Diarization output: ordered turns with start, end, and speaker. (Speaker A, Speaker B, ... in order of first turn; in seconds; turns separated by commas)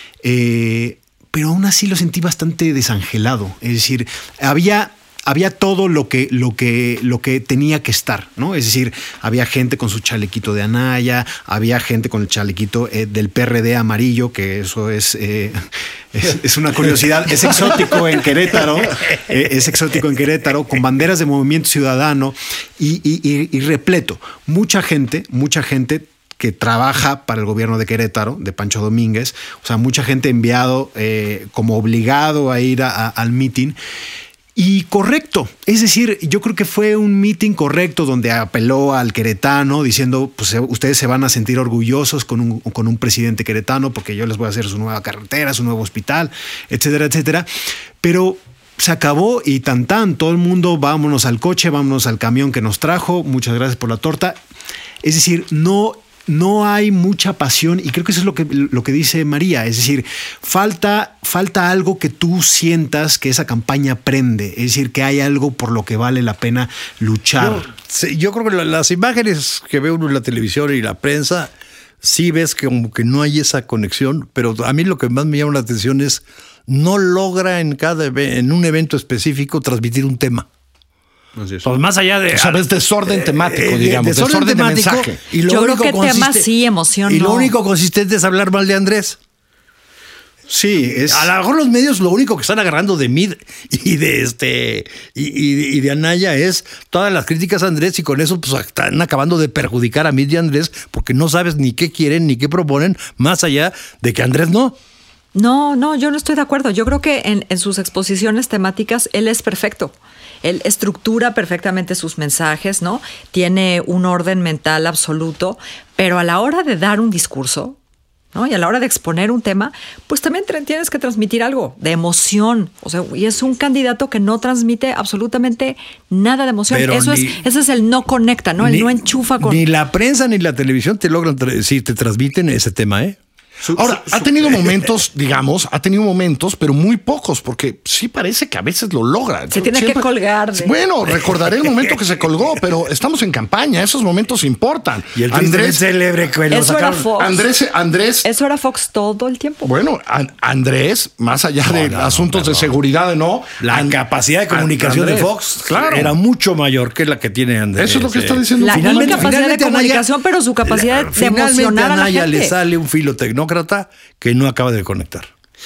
Speaker A: 0.2-15.6, Speaker A: 16.1-33.8, Speaker A: 34.6-47.5, Speaker A: 48.0-54.4, Speaker A: 55.0-67.7, Speaker B: 67.4-71.5, Speaker B: 72.0-80.5, Speaker A: 81.4-81.7, Speaker B: 81.6-86.5, Speaker C: 82.3-85.2, Speaker D: 85.5-87.5, Speaker B: 87.1-89.2, Speaker A: 90.5-91.3, Speaker B: 91.0-104.8, Speaker D: 105.3-117.8, Speaker D: 118.3-129.7, Speaker B: 126.7-127.3, Speaker B: 128.6-133.2, Speaker A: 133.6-134.5, Speaker C: 133.7-145.8, Speaker D: 139.5-140.7, Speaker B: 145.2-147.1, Speaker D: 146.5-147.5, Speaker C: 147.2-148.3, Speaker D: 148.2-149.7, Speaker C: 149.6-156.2, Speaker B: 151.7-152.7, Speaker B: 153.6-160.0, Speaker C: 157.8-159.4, Speaker D: 158.6-162.6, Speaker B: 160.7-165.3